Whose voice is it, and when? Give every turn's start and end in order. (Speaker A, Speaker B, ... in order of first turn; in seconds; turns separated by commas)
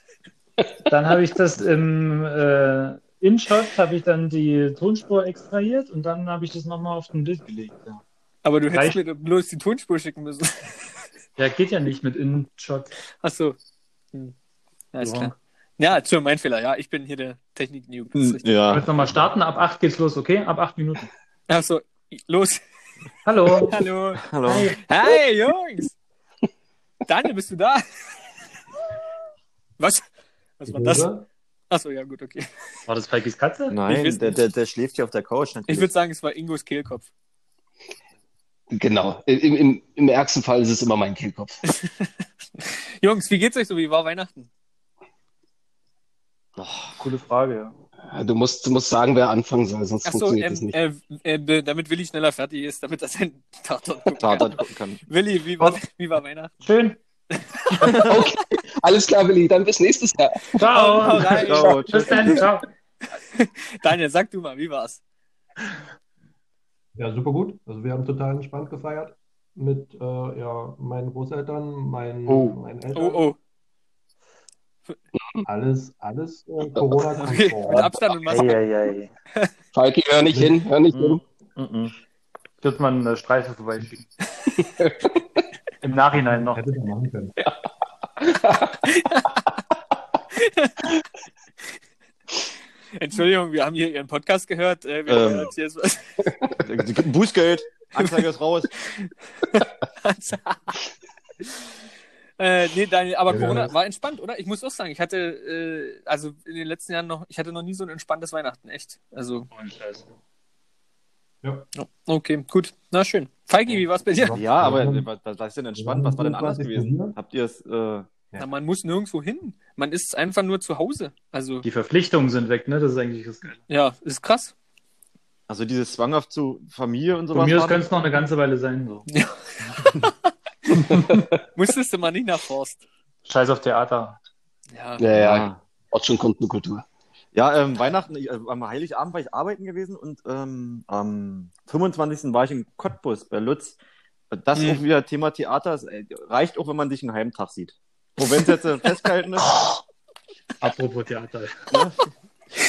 Speaker A: 0.9-8.0, Speaker B: 8.4-10.9, Speaker A: 8.7-9.0, Speaker A: 11.4-12.9, Speaker B: 13.2-13.6, Speaker B: 14.9-18.5, Speaker A: 15.0-15.3, Speaker C: 18.1-19.0, Speaker A: 18.7-21.1, Speaker B: 21.5-22.6, Speaker A: 23.2-23.8, Speaker B: 23.6-24.3, Speaker C: 24.2-24.7, Speaker A: 24.4-24.8, Speaker B: 24.8-25.9, Speaker B: 27.1-28.2, Speaker B: 29.8-30.0, Speaker B: 30.6-31.1, Speaker D: 30.7-31.2, Speaker B: 31.7-32.5, Speaker A: 32.9-33.8, Speaker C: 33.7-35.9, Speaker B: 33.9-34.4, Speaker B: 35.7-37.1, Speaker E: 38.7-41.5, Speaker B: 41.7-44.5, Speaker C: 46.6-47.0, Speaker A: 47.0-47.7, Speaker E: 48.1-50.8, Speaker B: 50.0-56.5, Speaker C: 54.2-55.0, Speaker A: 56.6-57.0, Speaker B: 57.3-58.1, Speaker E: 58.0-60.4, Speaker A: 60.5-62.6, Speaker B: 60.7-62.5, Speaker C: 60.8-62.5, Speaker B: 63.2-65.0, Speaker D: 67.0-73.3, Speaker E: 72.3-72.6, Speaker B: 72.9-73.3, Speaker D: 75.5-78.0, Speaker E: 76.7-77.0, Speaker B: 77.2-78.6, Speaker A: 78.3-79.1, Speaker E: 79.7-81.2, Speaker D: 80.3-80.6, Speaker A: 80.9-82.0, Speaker A: 82.6-84.1, Speaker E: 84.6-85.1, Speaker A: 85.8-86.6, Speaker D: 86.2-87.3, Speaker E: 88.2-88.8, Speaker B: 88.9-89.3, Speaker B: 90.3-90.8, Speaker B: 93.0-96.2, Speaker C: 95.1-95.5, Speaker C: 96.6-98.7, Speaker B: 98.9-100.7, Speaker B: 102.4-109.5, Speaker D: 103.3-103.7, Speaker A: 109.5-110.1, Speaker D: 111.4-111.7, Speaker B: 111.7-114.4, Speaker D: 114.2-115.1, Speaker C: 114.3-118.1, Speaker D: 115.8-117.2, Speaker B: 118.4-121.6, Speaker A: 121.6-123.6, Speaker B: 123.7-124.5, Speaker C: 125.5-127.8, Speaker A: 127.3-129.1, Speaker B: 129.1-130.1, Speaker A: 130.7-131.2, Speaker B: 131.5-132.8, Speaker A: 133.2-134.2, Speaker B: 134.7-135.1, Speaker E: 135.0-136.8, Speaker C: 135.2-135.6, Speaker C: 137.3-143.8, Speaker C: 144.3-149.6, Speaker B: 144.5-144.8, Speaker A: 150.6-151.6